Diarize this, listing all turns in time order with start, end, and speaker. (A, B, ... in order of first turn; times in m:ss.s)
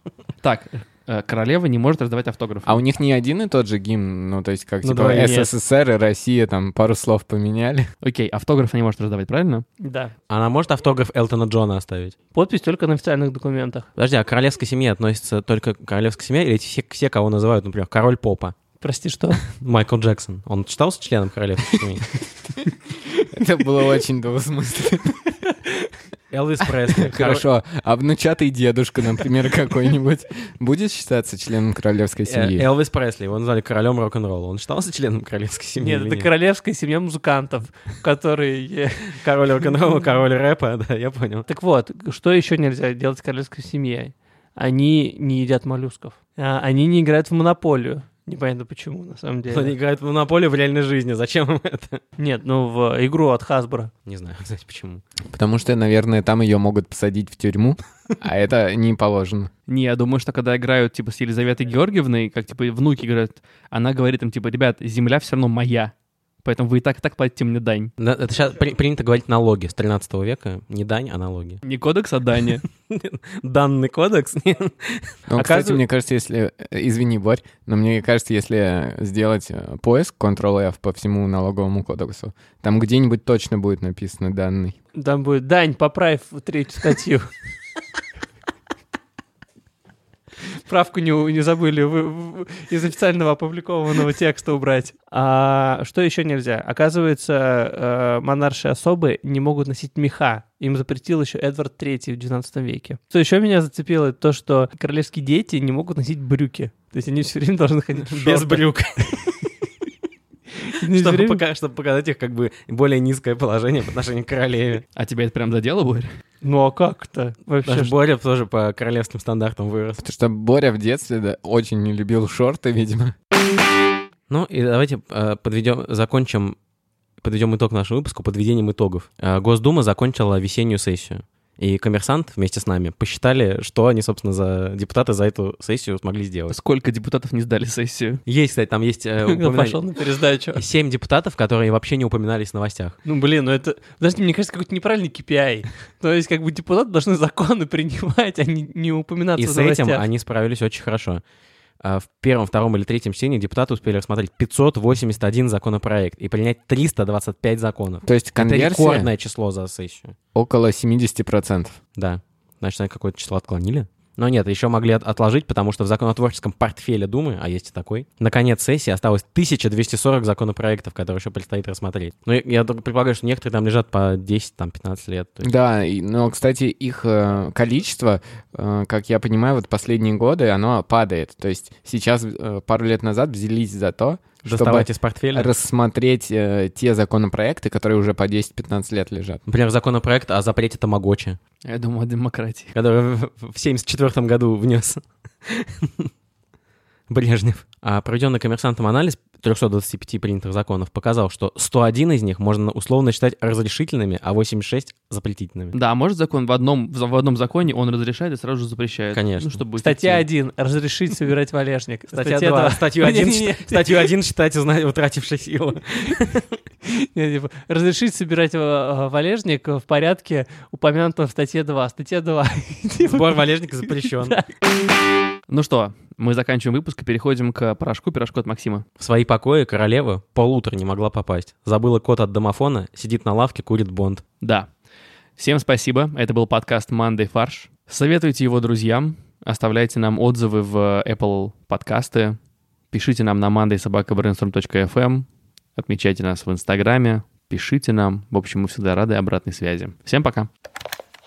0:00.4-0:02.8 A
0:02.6-0:07.9 B
0:04.8-0:05.5 C
0:08.0-0:09.6 A
0:09.8-0:10.1 C
0:10.3-0:12.1 D
0:12.3-0:13.9 C
0:14.0-0:18.5 D
0:18.8-0:19.4 C
0:19.4-0:22.1 D
0:23.2-0:25.5 B
0:26.3-0:27.4 D
0:26.9-0:32.6 B
0:32.3-0:36.3 D
0:35.8-0:39.2 C
0:39.1-0:41.5 D
0:41.5-0:49.7 C
0:49.5-0:52.0 D
0:52.2-0:53.9 C
0:54.0-0:55.0 D
0:55.3-0:59.5 B
0:59.7-1:07.9 A
1:08.0-1:11.6 D
1:11.6-1:12.6 A
1:12.8-1:15.2 D
1:15.3-1:24.8 B
1:15.4-1:15.8 C
1:24.9-1:27.3 C
1:30.6-1:48.6 C
1:48.1-1:49.5 D
1:50.7-1:51.4 C
1:50.9-1:54.8 D
1:55.0-1:56.1 A
1:56.4-1:57.9 C
1:57.6-2:00.0 D
2:00.0-2:03.1 B
2:04.3-2:06.6 D
2:07.2-2:16.6 D
2:16.5-2:18.2 A
2:18.2-2:19.8 D
2:19.2-2:20.6 C
2:20.5-2:23.0 D
2:23.0-2:30.0 C
2:29.4-2:31.2 D
2:31.8-2:40.2 D
2:38.0-2:39.1 B
2:40.3-2:41.8 B
2:42.0-2:55.5 D
2:55.4-3:09.4 B
3:04.4-3:05.5 D
3:09.5-3:11.4 D
3:11.6-3:12.7 A
3:12.7-3:16.1 D
3:17.1-3:25.7 D
3:25.7-3:30.2 A
3:29.1-3:29.6 D
3:29.8-3:34.1 C
3:32.1-3:36.6 D
3:36.9-3:44.4 C
3:43.0-3:44.4 D
3:45.5-3:48.8 A
3:49.0-3:54.2 D
3:54.4-3:54.7 A
3:55.4-4:02.4 A
4:02.9-4:05.2 A
4:05.8-4:10.5 A